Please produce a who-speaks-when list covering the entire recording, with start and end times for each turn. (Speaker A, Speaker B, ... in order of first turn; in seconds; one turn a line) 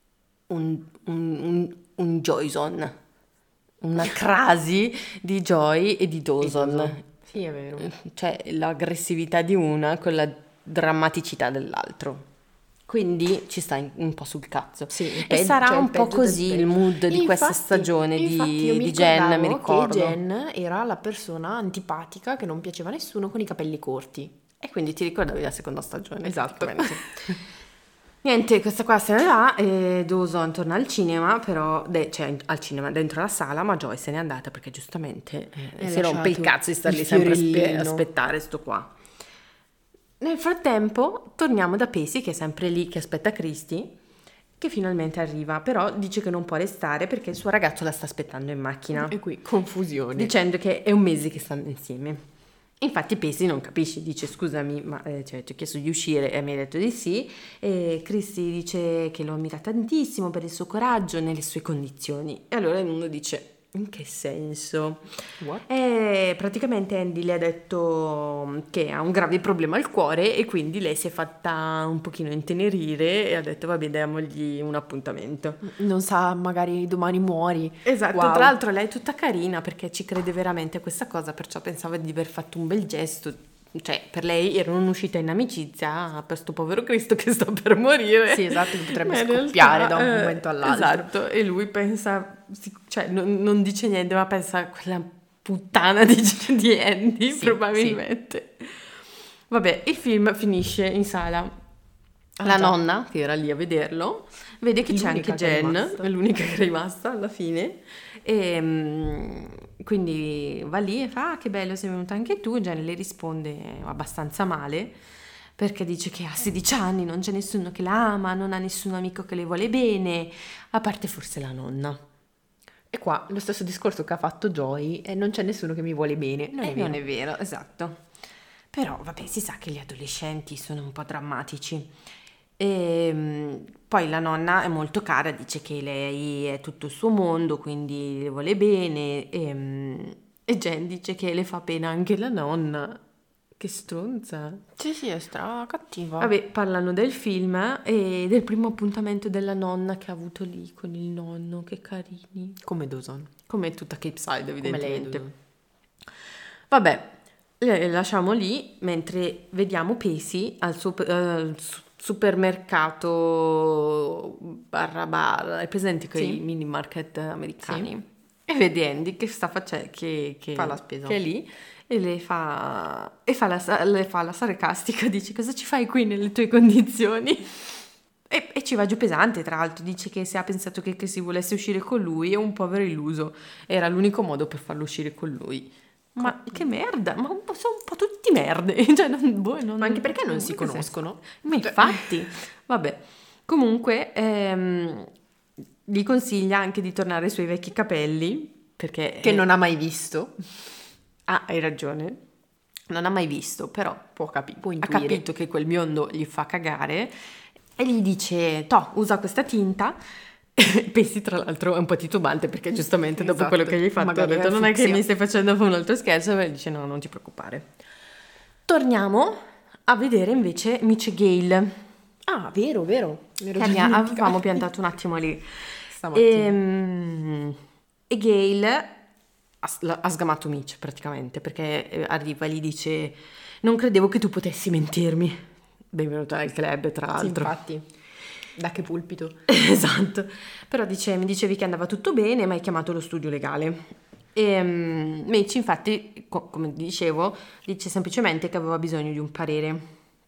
Speaker A: 0.5-3.0
Speaker A: 3.8-7.0
Speaker B: 6.4-7.9
Speaker A: 7.8-12.3
Speaker A: 12.9-20.2
Speaker B: 14.9-24.3
Speaker A: 24.6-27.4
Speaker B: 26.2-27.4
Speaker A: 28.2-38.9
Speaker B: 35.8-38.0
Speaker A: 40.2-43.9
Speaker A: 44.6-49.2
Speaker B: 48.9-50.3
Speaker A: 50.1-52.2
Speaker A: 52.8-75.6
Speaker B: 75.6-78.5
Speaker A: 77.8-99.0
Speaker B: 88.3-91.1
Speaker B: 97.3-98.0
Speaker A: 99.5-101.5
Speaker A: 102.4-115.0
Speaker B: 102.4-102.8
Speaker B: 104.9-106.1
Speaker A: 115.6-122.0
Speaker B: 122.9-127.0
Speaker A: 126.5-128.0
Speaker A: 128.7-131.9
Speaker A: 132.6-143.0
Speaker A: 143.6-144.6
Speaker B: 144.8-146.3
Speaker A: 146.2-152.6
Speaker B: 152.6-153.3
Speaker A: 153.5-155.3
Speaker B: 154.6-155.3
Speaker A: 156.7-195.1
Speaker B: 166.2-166.4
Speaker B: 167.7-167.9
Speaker B: 170.6-171.2
Speaker B: 189.8-192.0
Speaker A: 195.9-199.5
Speaker B: 199.2-200.4
Speaker A: 201.3-202.2
Speaker A: 202.9-204.1
Speaker B: 204.2-205.2
Speaker A: 204.8-207.1
Speaker A: 207.8-210.0
Speaker A: 210.6-217.7
Speaker B: 213.2-215.0
Speaker A: 218.7-221.8
Speaker B: 222.3-224.7
Speaker A: 223.6-227.6
Speaker B: 225.9-226.6
Speaker A: 228.1-229.0
Speaker A: 229.6-237.6
Speaker B: 237.2-237.9
Speaker B: 238.6-239.4
Speaker A: 239.5-249.9